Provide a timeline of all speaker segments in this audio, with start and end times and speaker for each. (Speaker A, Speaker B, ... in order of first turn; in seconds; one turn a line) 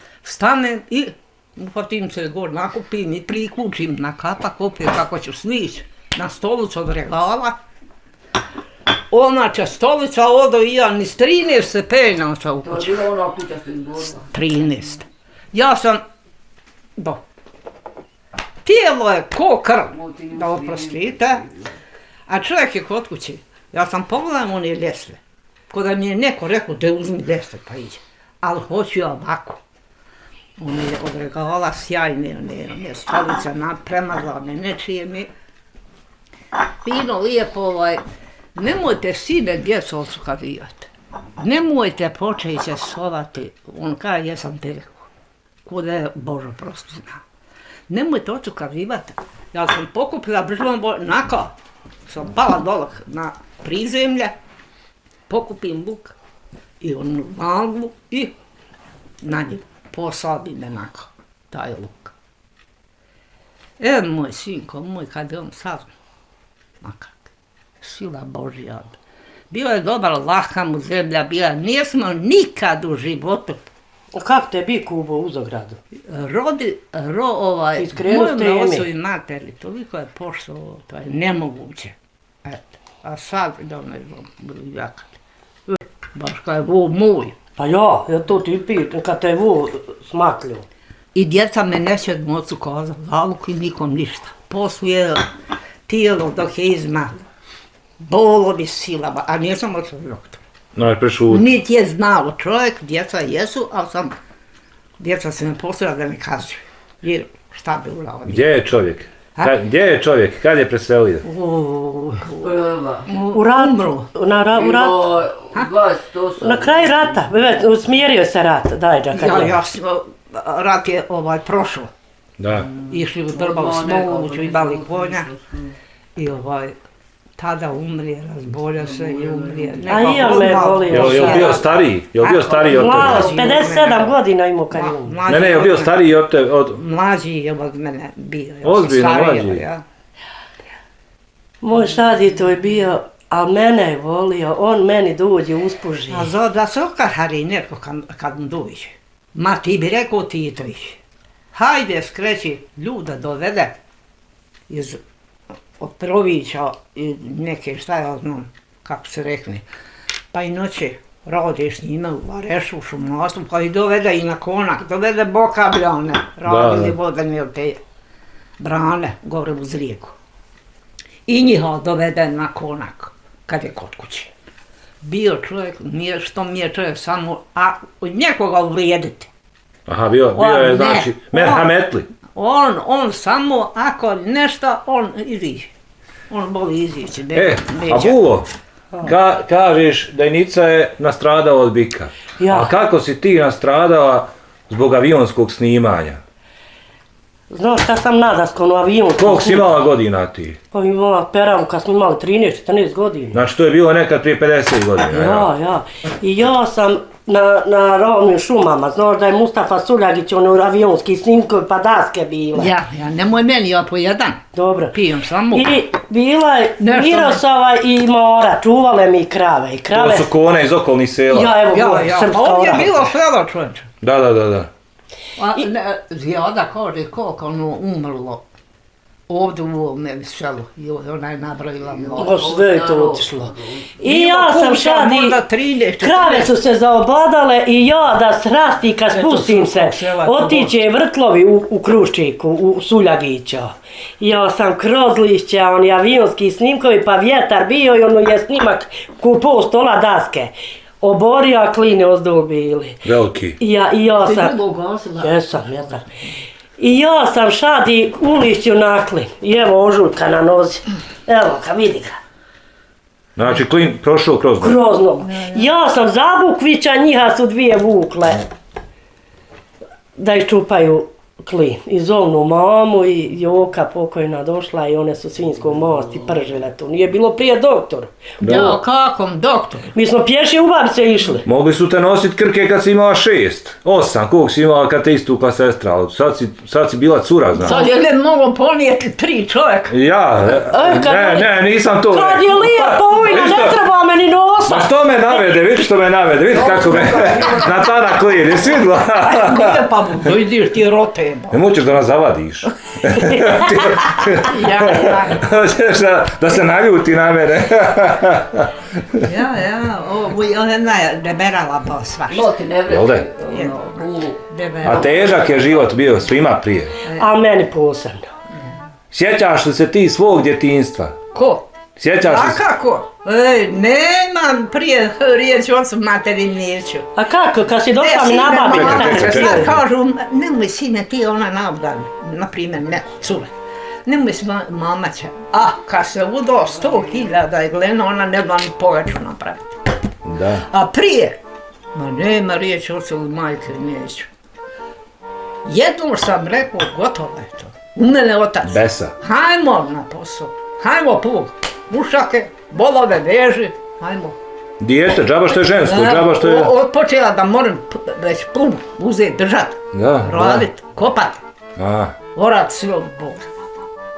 Speaker A: 0.2-7.6
Speaker A: 9.1-13.0
Speaker B: 12.6-14.3
Speaker A: 14.3-16.0
Speaker A: 17.0-17.2
Speaker A: 18.6-21.4
Speaker B: 19.9-21.7
Speaker A: 22.3-25.2
Speaker A: 25.7-29.6
Speaker A: 30.6-35.3
Speaker A: 36.8-38.0
Speaker A: 38.5-45.0
Speaker A: 45.6-47.2
Speaker A: 47.9-51.5
Speaker A: 52.1-54.3
Speaker A: 55.3-56.1
Speaker A: 56.8-58.3
Speaker A: 59.2-62.1
Speaker A: 63.8-65.9
Speaker A: 66.8-67.3
Speaker A: 67.8-68.9
Speaker A: 69.5-73.7
Speaker C: 74.1-75.8
Speaker A: 76.1-85.2
Speaker C: 77.7-78.9
Speaker A: 86.1-87.4
Speaker C: 87.6-90.6
Speaker A: 91.1-95.2
Speaker A: 95.9-97.2
Speaker A: 98.0-100.4
Speaker D: 100.7-101.5
Speaker A: 101.3-104.1
Speaker A: 105.0-108.5
Speaker D: 108.3-111.2
Speaker A: 111.2-114.1
Speaker B: 112.4-113.1
Speaker C: 113.3-115.2
Speaker B: 114.5-117.3
Speaker C: 116.4-119.6
Speaker A: 119.1-121.9
Speaker D: 122.4-122.7
Speaker B: 122.7-125.7
Speaker A: 122.8-125.3
Speaker A: 126.2-126.7
Speaker A: 127.4-134.1
Speaker B: 128.8-130.6
Speaker C: 129.9-131.6
Speaker D: 130.9-133.3
Speaker C: 132.7-135.2
Speaker A: 134.7-136.0
Speaker D: 135.3-136.8
Speaker A: 136.7-139.8
Speaker D: 138.6-139.6
Speaker C: 141.6-146.3
Speaker A: 146.1-151.0
Speaker A: 151.5-153.8
Speaker A: 154.7-155.0
Speaker A: 155.8-159.6
Speaker A: 160.3-167.8
Speaker D: 166.4-167.0
Speaker A: 168.6-170.1
Speaker A: 171.3-174.3
Speaker A: 175.0-179.3
Speaker D: 179.9-182.1
Speaker A: 180.3-181.7
Speaker A: 182.3-185.7
Speaker A: 186.3-188.2
Speaker D: 187.3-188.4
Speaker D: 189.0-196.2
Speaker C: 192.4-192.7
Speaker C: 197.5-199.7
Speaker D: 199.2-200.6
Speaker C: 200.7-203.4
Speaker D: 203.3-205.5
Speaker C: 205.1-212.7
Speaker A: 212.6-215.7
Speaker C: 214.5-214.9
Speaker C: 215.5-220.3
Speaker A: 216.8-217.4
Speaker D: 219.9-221.6
Speaker C: 221.3-223.1
Speaker A: 221.7-223.9
Speaker D: 224.0-224.7
Speaker A: 225.3-228.4
Speaker A: 229.3-232.3
Speaker B: 231.9-233.9
Speaker C: 232.2-235.4
Speaker A: 234.0-236.5
Speaker C: 236.0-254.6
Speaker A: 239.1-240.7
Speaker D: 253.0-253.6
Speaker A: 254.2-255.3
Speaker C: 255.2-256.0
Speaker C: 256.8-262.2
Speaker D: 263.4-264.8
Speaker C: 264.6-268.5
Speaker A: 265.2-265.7
Speaker C: 270.1-278.8
Speaker A: 278.4-279.9
Speaker D: 278.4-278.8
Speaker C: 279.9-281.4
Speaker D: 281.4-287.8
Speaker A: 287.6-289.9
Speaker C: 287.6-287.9
Speaker D: 289.9-293.8
Speaker C: 290.6-291.5
Speaker C: 292.1-294.9
Speaker D: 294.6-299.8
Speaker B: 296.5-298.1
Speaker A: 299.2-301.6
Speaker D: 301.5-309.2
Speaker C: 303.3-303.5
Speaker A: 304.3-305.4
Speaker A: 309.2-312.5
Speaker B: 312.3-315.9
Speaker D: 312.9-313.3
Speaker A: 313.4-315.3
Speaker D: 314.8-317.0
Speaker C: 317.1-318.2
Speaker D: 319.1-321.2
Speaker A: 321.3-321.7
Speaker D: 322.0-322.6
Speaker A: 322.2-327.1
Speaker C: 327.1-329.8
Speaker A: 328.0-333.5
Speaker D: 328.7-329.8
Speaker A: 334.1-339.8
Speaker D: 340.2-340.6
Speaker A: 340.6-341.4
Speaker A: 341.9-344.3
Speaker A: 345.6-354.4
Speaker D: 348.6-349.1
Speaker D: 354.8-356.7
Speaker A: 355.8-361.4
Speaker D: 359.9-360.6
Speaker D: 361.8-362.1
Speaker A: 362.3-363.4